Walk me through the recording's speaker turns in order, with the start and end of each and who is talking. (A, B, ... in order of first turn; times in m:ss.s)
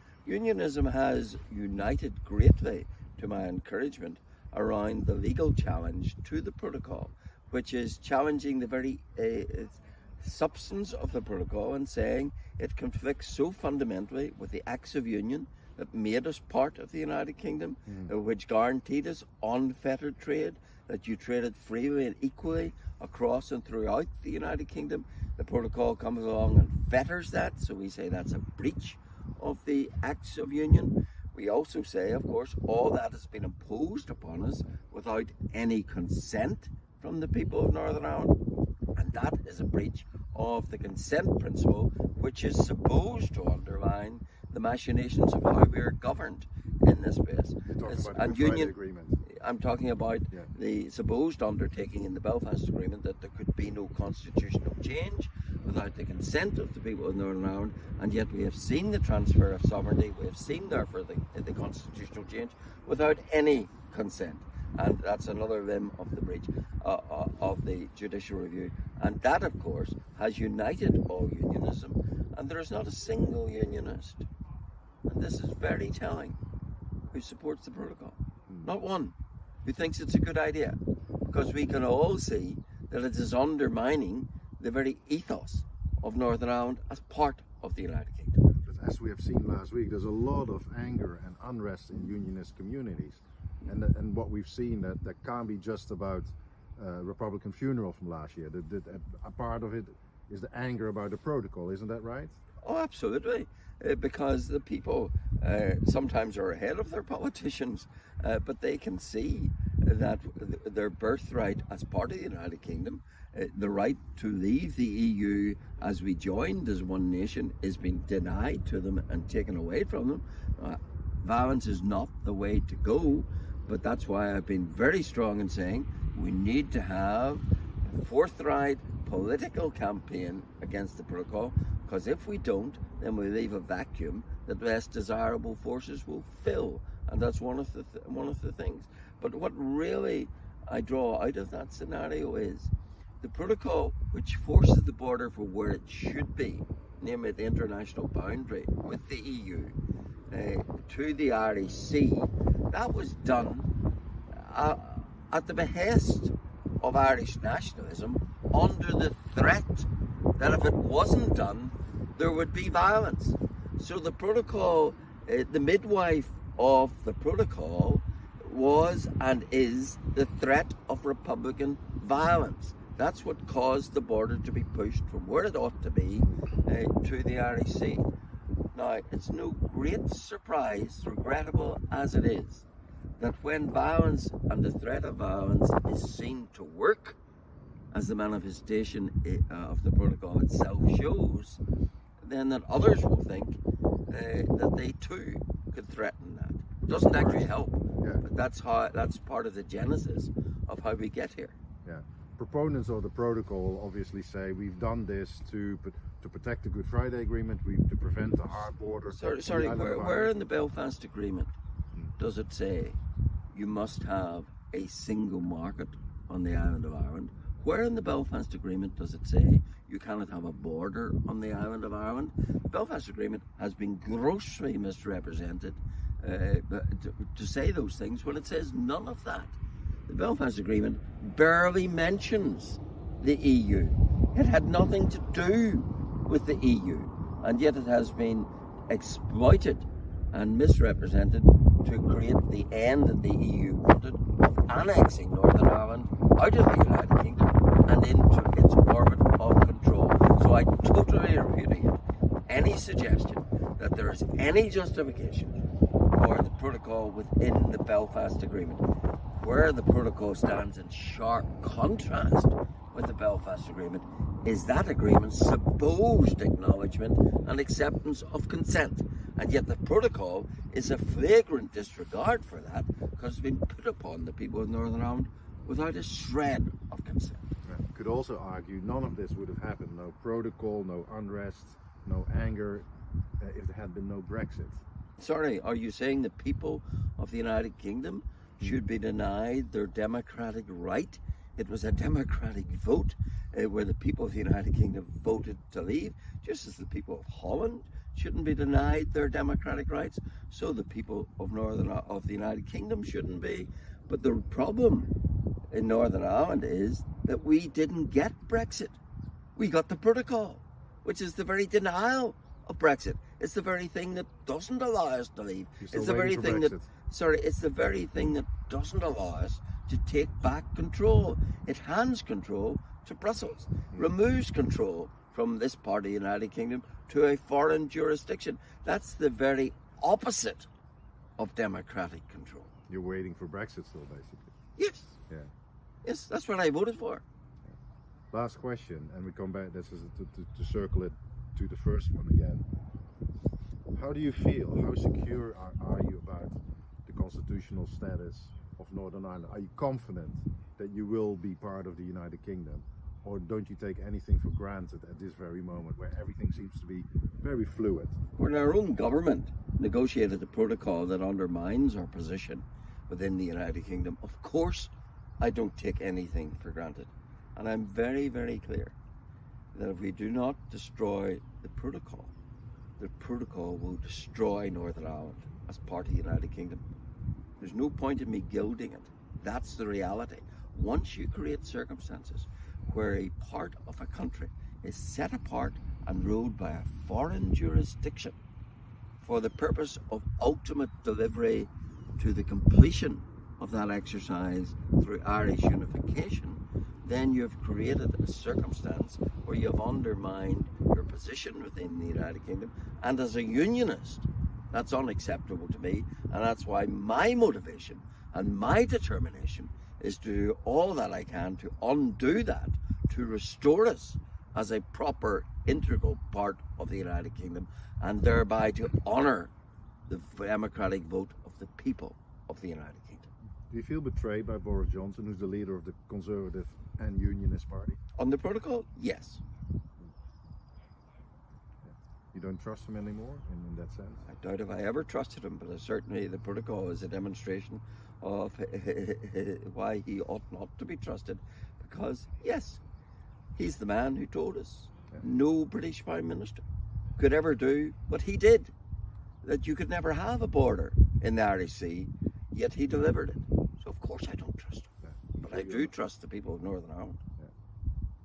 0:00.2-0:38.4 A
0:17.9-0:18.1 B
0:39.0-0:48.7 A
0:47.7-0:49.2 B
0:49.3-1:14.2 A
1:15.1-1:16.4 A
1:17.1-1:28.4 A
1:28.5-1:42.4 B
1:42.6-2:29.7 A
2:30.3-2:33.7 A
2:34.3-2:58.1 A
2:58.7-3:02.7 A
3:03.2-3:07.2 A
3:07.9-3:11.6 A
3:12.2-3:21.6 A
3:16.9-3:17.5 B
3:21.8-3:30.4 B
3:29.1-3:31.5 A
3:32.2-3:33.0 A
3:33.5-4:15.6 A
4:16.1-4:18.8 A
4:19.4-4:37.5 A
4:37.7-4:42.9 B
4:43.4-4:44.8 B
4:45.2-5:05.1 A
5:05.7-5:09.0 A
5:09.6-5:30.7 A
5:15.8-5:16.9 B
5:31.4-5:32.7 A
5:32.9-5:34.6 B
5:34.8-5:35.2 A
5:36.0-5:37.2 A
5:38.3-5:42.6 B
5:43.9-5:58.2 B
5:58.4-6:09.0 A
6:09.7-6:12.3 A
6:13.0-6:16.8 A
6:17.6-6:28.4 A
6:29.2-6:59.5 A
7:00.1-7:03.3 A
7:03.7-7:08.0 B
7:08.2-7:09.4 A
7:11.8-7:14.2 B
7:14.2-7:22.8 A
7:23.6-7:26.6 A
7:27.2-7:28.7 A
7:29.4-7:34.9 A
7:35.0-7:35.9 B
7:35.4-7:37.2 A